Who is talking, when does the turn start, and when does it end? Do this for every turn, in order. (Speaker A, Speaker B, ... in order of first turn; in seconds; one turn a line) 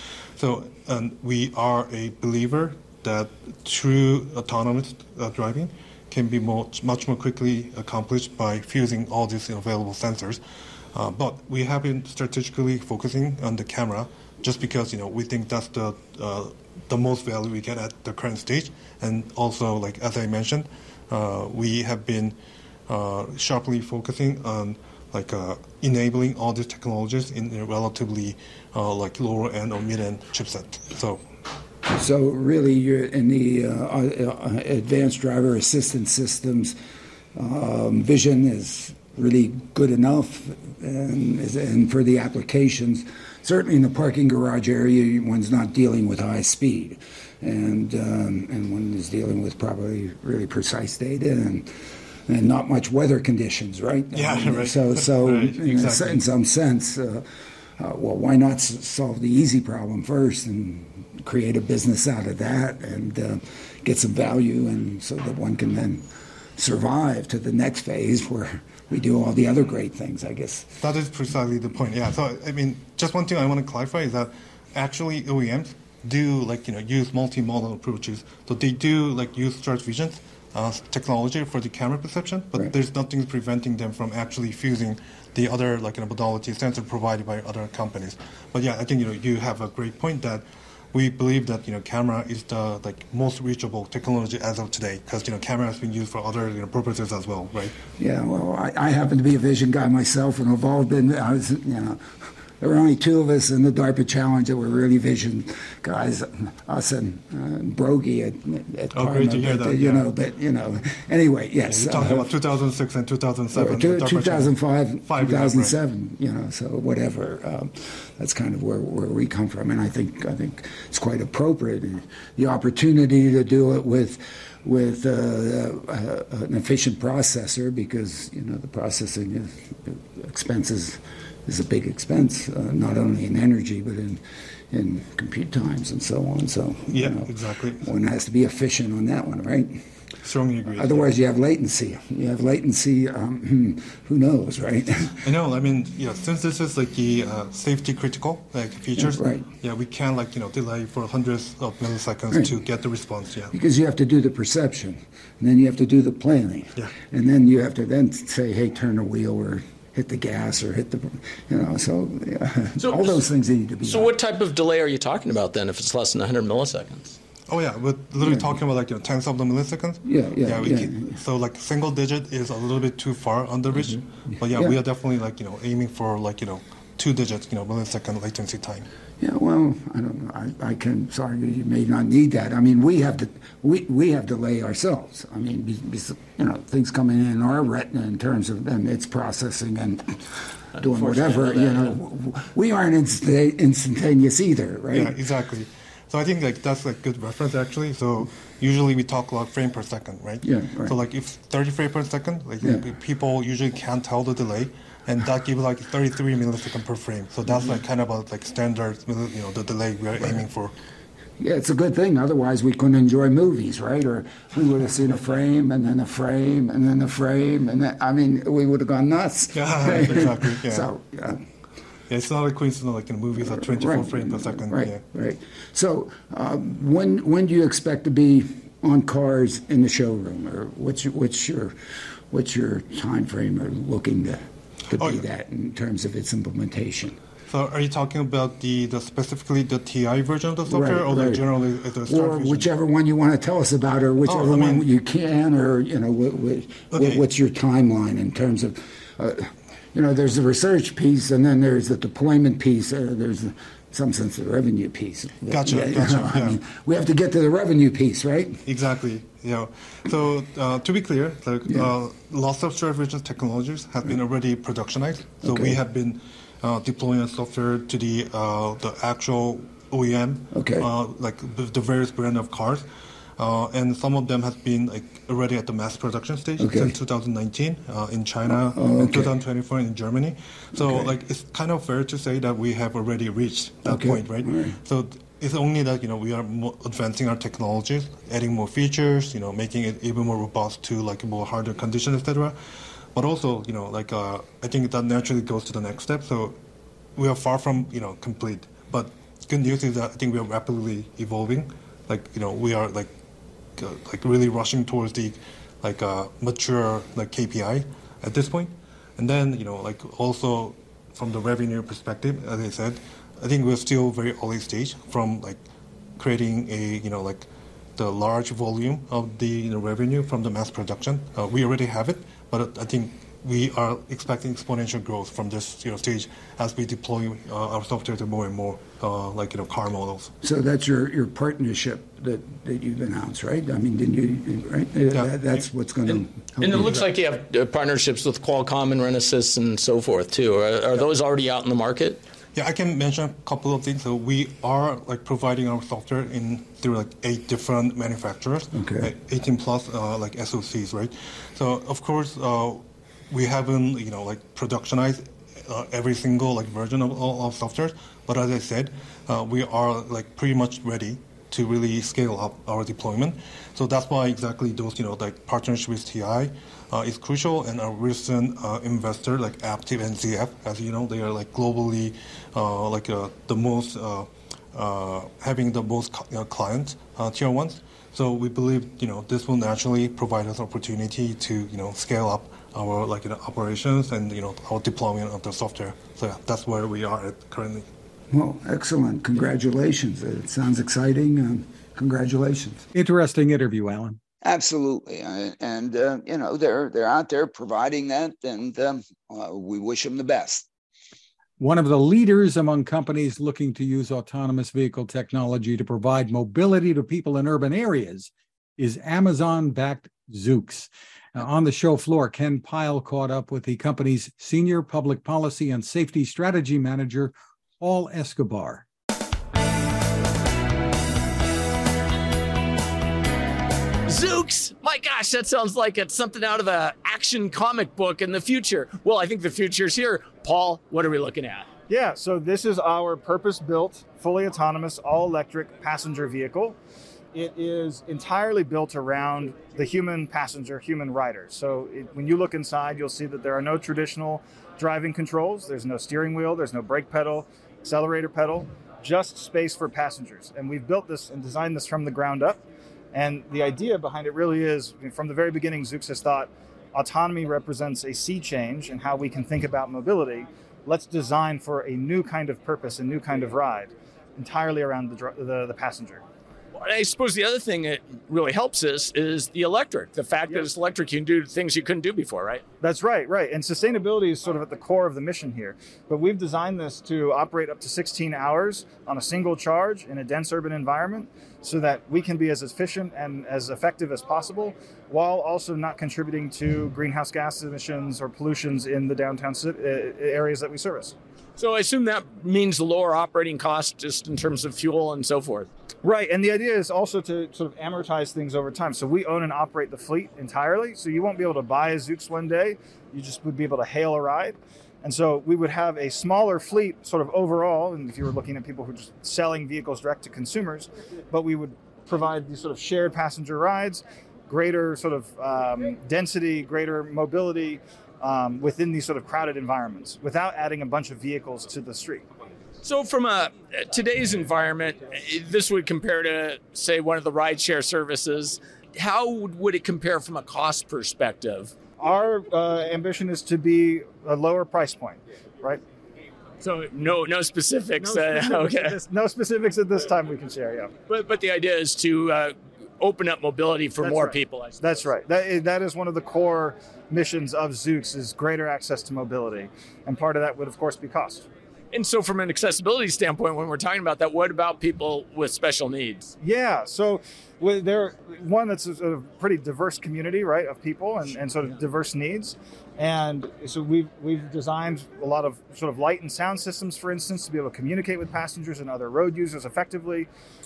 Speaker A: 0.3-10.4
Speaker A: 10.9-22.4
Speaker A: 22.9-31.2
Speaker B: 32.0-36.7
Speaker B: 37.4-51.6
Speaker B: 52.3-57.2
Speaker A: 54.1-56.2
Speaker B: 57.8-66.0
Speaker B: 66.6-70.7
Speaker A: 70.8-97.8
Speaker B: 98.0-102.0
Speaker B: 102.6-112.3
Speaker A: 108.9-110.1
Speaker A: 111.7-114.5
Speaker B: 113.5-134.2
Speaker A: 115.0-115.7
Speaker B: 134.7-137.3
Speaker A: 136.9-137.9
Speaker B: 137.8-139.8
Speaker A: 140.2-141.1
Speaker B: 140.7-145.1
Speaker A: 145.2-153.5
Speaker B: 149.0-149.4
Speaker B: 153.5-164.1
Speaker C: 162.8-163.2
Speaker C: 163.8-167.2
Speaker A: 167.5-178.9
Speaker B: 168.2-168.6
Speaker B: 170.1-171.2
Speaker B: 174.5-174.8
Speaker B: 179.2-195.1
Speaker C: 190.8-192.0
Speaker A: 194.9-210.7
Speaker B: 200.4-200.9
Speaker B: 211.4-221.4
Speaker A: 219.5-220.9
Speaker A: 222.1-225.0
Speaker B: 223.4-231.7
Speaker B: 232.3-234.3
Speaker B: 234.9-237.1
Speaker A: 234.9-235.2
Speaker A: 237.5-242.7
Speaker B: 240.7-241.5
Speaker B: 242.0-258.6
Speaker A: 244.2-244.8
Speaker A: 246.9-247.2
Speaker A: 255.5-256.6
Speaker A: 258.6-272.8
Speaker B: 265.4-265.8
Speaker B: 270.5-270.9
Speaker A: 273.4-292.6
Speaker B: 276.6-276.9
Speaker B: 278.6-279.3
Speaker B: 280.8-281.1
Speaker B: 283.8-284.8
Speaker A: 293.1-296.6
Speaker A: 297.1-303.1
Speaker A: 303.8-315.6
Speaker A: 316.2-330.3
Speaker B: 330.4-337.0
Speaker A: 335.1-335.5
Speaker C: 336.1-342.2
Speaker A: 342.5-387.9
Speaker B: 348.7-349.1
Speaker B: 388.3-391.2
Speaker D: 388.4-391.4
Speaker D: 392.0-392.7
Speaker B: 392.1-392.6
Speaker E: 392.9-394.2
Speaker D: 394.4-400.7
Speaker E: 401.6-418.9
Speaker C: 424.1-431.7
Speaker F: 431.9-436.8
Speaker F: 437.3-452.6
Speaker F: 453.1-466.2
Speaker C: 466.7-472.6
Speaker F: 472.8-491.1
Speaker C: 491.6-495.7
Speaker F: 496.0-522.2
Speaker C: 522.8-531.7
Speaker F: 532.0-535.8
Speaker C: 536.6-539.0
Speaker F: 538.0-540.9
Speaker C: 541.1-544.9
Speaker F: 544.0-551.5
Speaker C: 551.9-556.3
Speaker F: 556.4-570.3